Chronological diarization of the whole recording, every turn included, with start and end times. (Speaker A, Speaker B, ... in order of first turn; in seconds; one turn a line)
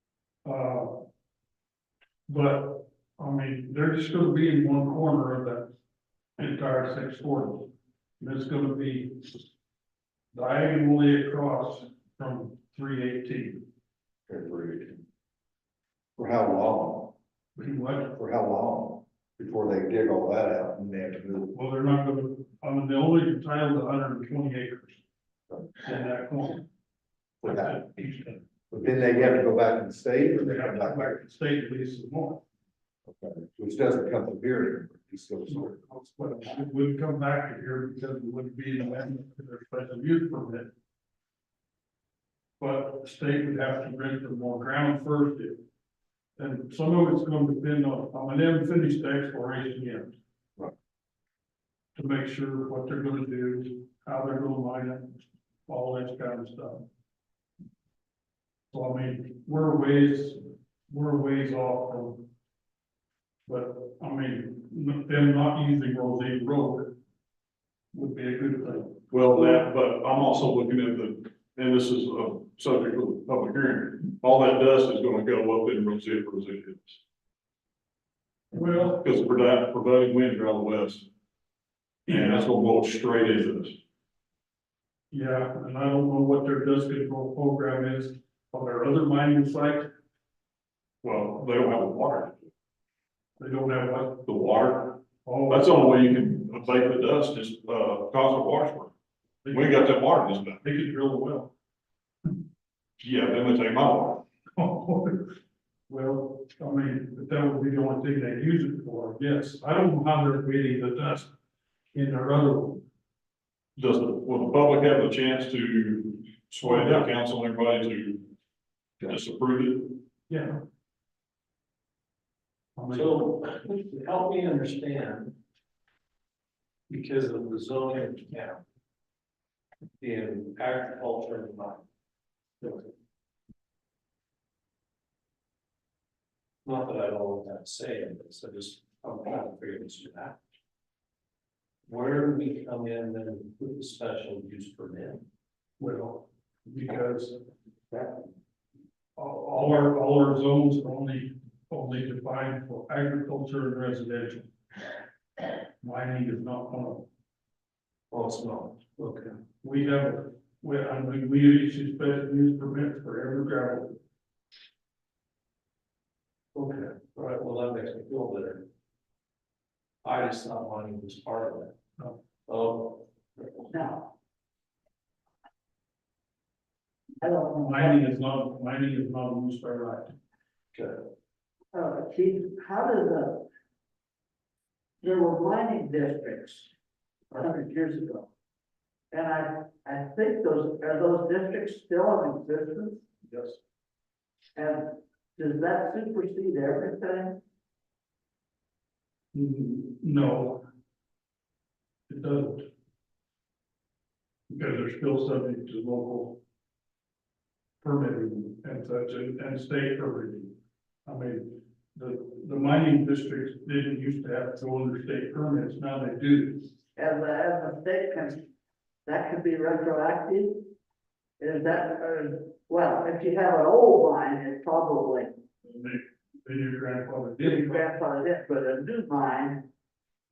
Speaker A: 0.5-1.1
Speaker A: 2.3-5.7
Speaker A: 6.4-9.5
Speaker A: 10.3-13.6
Speaker B: 14.3-15.0
Speaker B: 16.2-17.2
Speaker A: 17.6-18.1
Speaker B: 18.1-21.6
Speaker A: 21.5-25.0
Speaker A: 25.8-26.6
Speaker B: 27.4-28.2
Speaker A: 27.4-28.4
Speaker B: 28.7-31.2
Speaker A: 30.4-32.4
Speaker B: 33.1-35.8
Speaker A: 35.5-40.7
Speaker A: 42.6-45.6
Speaker A: 46.4-50.1
Speaker A: 52.0-56.9
Speaker A: 58.7-62.3
Speaker A: 63.5-67.0
Speaker A: 67.9-69.4
Speaker C: 69.1-77.0
Speaker A: 78.5-79.0
Speaker C: 78.9-81.1
Speaker C: 82.1-83.8
Speaker A: 82.1-82.5
Speaker A: 85.1-89.9
Speaker C: 91.0-92.4
Speaker A: 93.4-94.3
Speaker C: 94.3-98.9
Speaker A: 95.2-95.7
Speaker A: 99.5-100.0
Speaker C: 99.5-100.6
Speaker A: 100.6-101.5
Speaker C: 103.0-104.2
Speaker A: 104.6-105.3
Speaker A: 105.9-111.3
Speaker A: 111.9-112.8
Speaker C: 113.8-118.3
Speaker A: 116.6-117.1
Speaker C: 119.0-120.0
Speaker A: 120.3-120.6
Speaker A: 122.8-123.3
Speaker D: 122.9-125.4
Speaker D: 126.9-128.7
Speaker D: 130.0-131.9
Speaker D: 136.7-140.4
Speaker D: 141.9-145.2
Speaker A: 145.8-147.4
Speaker A: 149.2-154.5
Speaker A: 155.8-157.1
Speaker D: 158.1-159.4
Speaker A: 159.5-164.0
Speaker D: 166.5-168.7
Speaker D: 170.0-171.8
Speaker D: 172.5-173.7
Speaker E: 173.7-174.1
Speaker E: 177.2-178.1
Speaker A: 177.6-180.1
Speaker D: 180.7-181.1
Speaker E: 181.7-183.5
Speaker E: 185.0-186.7
Speaker E: 187.3-188.3
Speaker E: 189.1-193.1
Speaker A: 193.3-193.6
Speaker E: 194.6-197.4
Speaker A: 199.3-200.7
Speaker A: 202.1-202.7
Speaker A: 204.5-206.4
Speaker A: 207.8-210.5
Speaker A: 211.1-216.7
Speaker E: 217.0-218.4
Speaker E: 219.1-220.7
Speaker E: 221.4-225.4
Speaker A: 225.6-227.9
Speaker E: 227.4-229.6